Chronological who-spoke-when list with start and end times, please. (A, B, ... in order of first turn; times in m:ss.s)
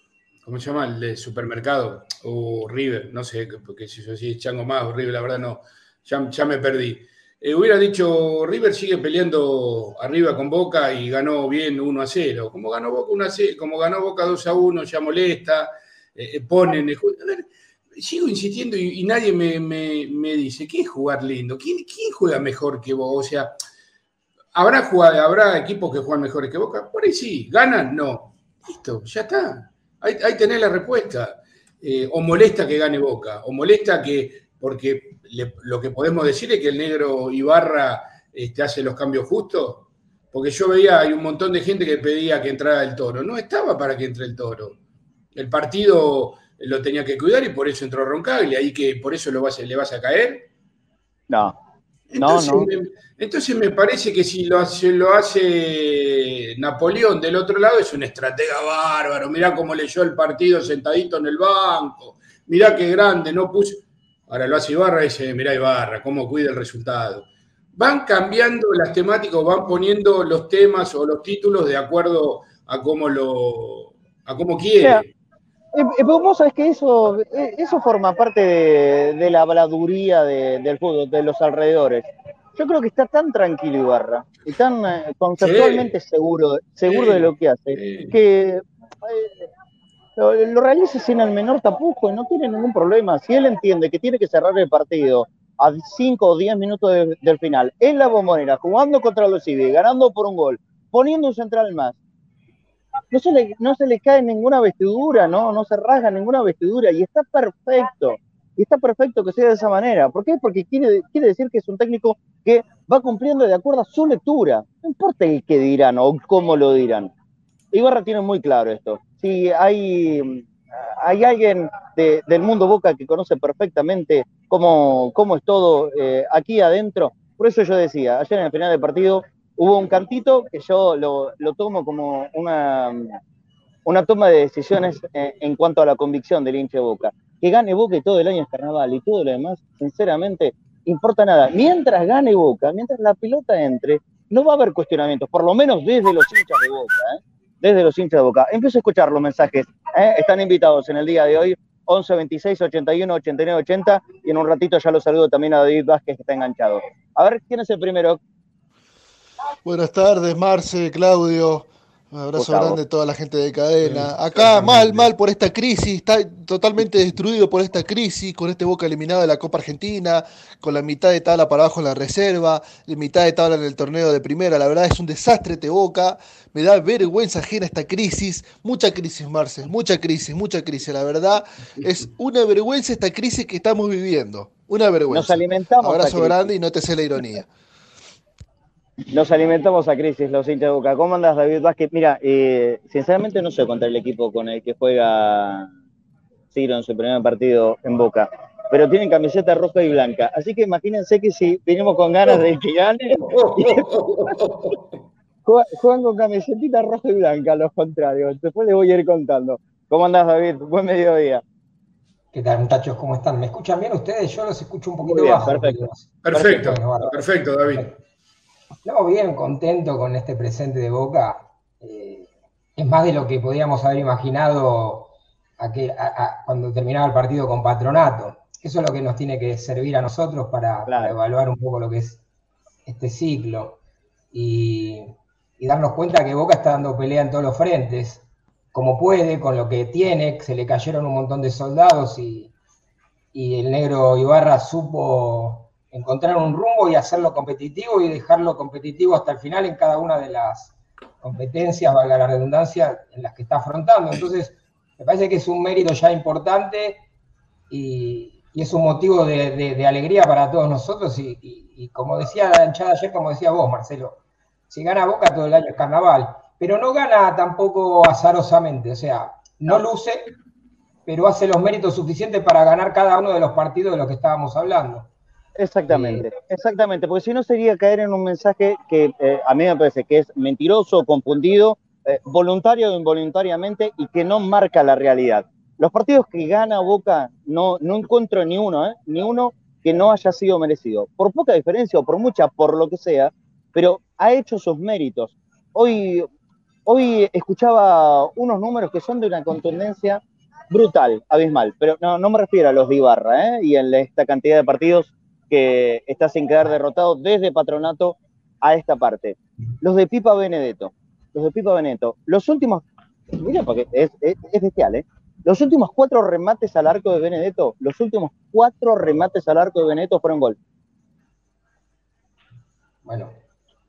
0:00.4-0:23.5 A
0:24.5-0:44.8 A
0:45.3-0:50.5 A
0:51.3-0:51.5 B
0:52.1-1:15.1 A
0:52.2-0:52.7 B
1:15.7-1:29.5 B
1:25.4-1:25.9 A
1:26.9-1:28.1 A
1:30.2-1:42.0 B
1:43.1-1:57.1 B
1:57.7-2:13.2 B
2:13.9-2:38.2 B
2:39.6-3:07.5 C
2:42.4-2:42.8 B
2:43.8-2:45.1 A
3:05.1-3:06.6 B
3:09.1-3:15.7 B
3:16.5-3:23.8 B
3:23.2-3:25.0 A
3:25.4-3:31.4 B
3:32.3-3:37.9 D
3:35.0-3:36.7 B
3:36.2-3:37.9 A
3:38.8-3:52.2 D
3:50.9-3:51.2 B
3:52.8-3:53.8 D
3:54.3-4:02.5 D
4:03.3-4:17.0 D
4:17.7-4:24.2 D
4:24.7-4:30.3 D
4:31.1-4:35.1 D
4:35.6-4:56.3 B
4:35.9-4:36.3 D
4:56.9-5:20.6 B
5:23.0-5:23.4 D